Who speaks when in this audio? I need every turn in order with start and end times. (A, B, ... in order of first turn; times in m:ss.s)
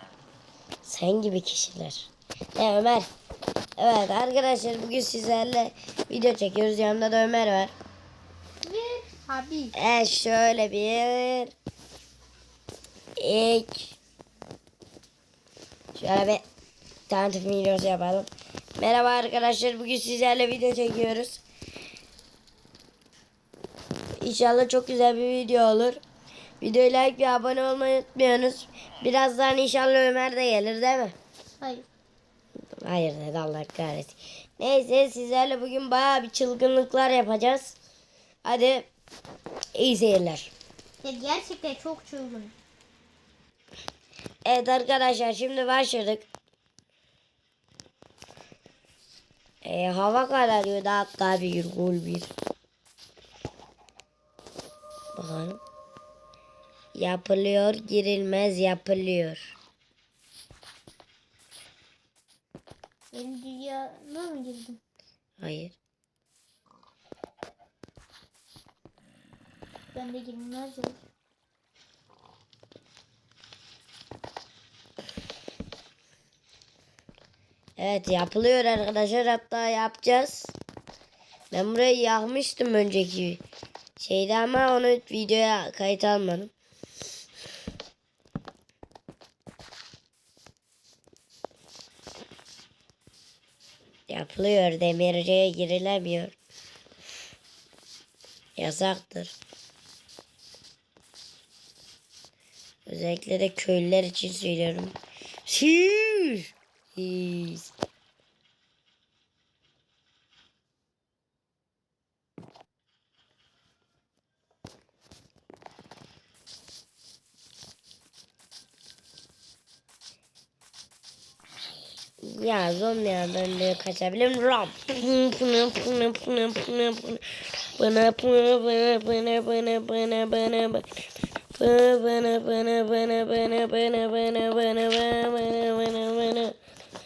0:00.8-0:03.1 A
0:03.8-0:07.7 A
0:08.6-0:09.7 B
0:09.7-0:11.5 A
0:13.2-0:14.0 A
0:15.9-0:16.4 A
0:17.1-0:21.4 A
0:24.2-0:26.0 A
0:26.6-0:31.1 A
0:31.6-0:31.8 B
0:32.8-0:37.8 A
0:38.4-0:38.9 A
0:39.8-0:40.5 A
0:41.0-0:42.5 B
0:44.4-0:46.2 A
0:49.6-0:52.3 A
0:55.1-0:55.6 A
0:56.9-0:59.6 A
1:03.1-1:04.8 B
1:05.4-1:05.8 A
1:09.9-1:11.0 B
1:17.8-1:20.5 A
1:21.5-1:23.4 A
1:24.0-1:26.5 A
1:34.1-1:36.3 A
1:38.6-1:39.3 A
1:42.8-1:47.7 A
2:02.2-2:10.9 A
2:11.6-2:16.6 A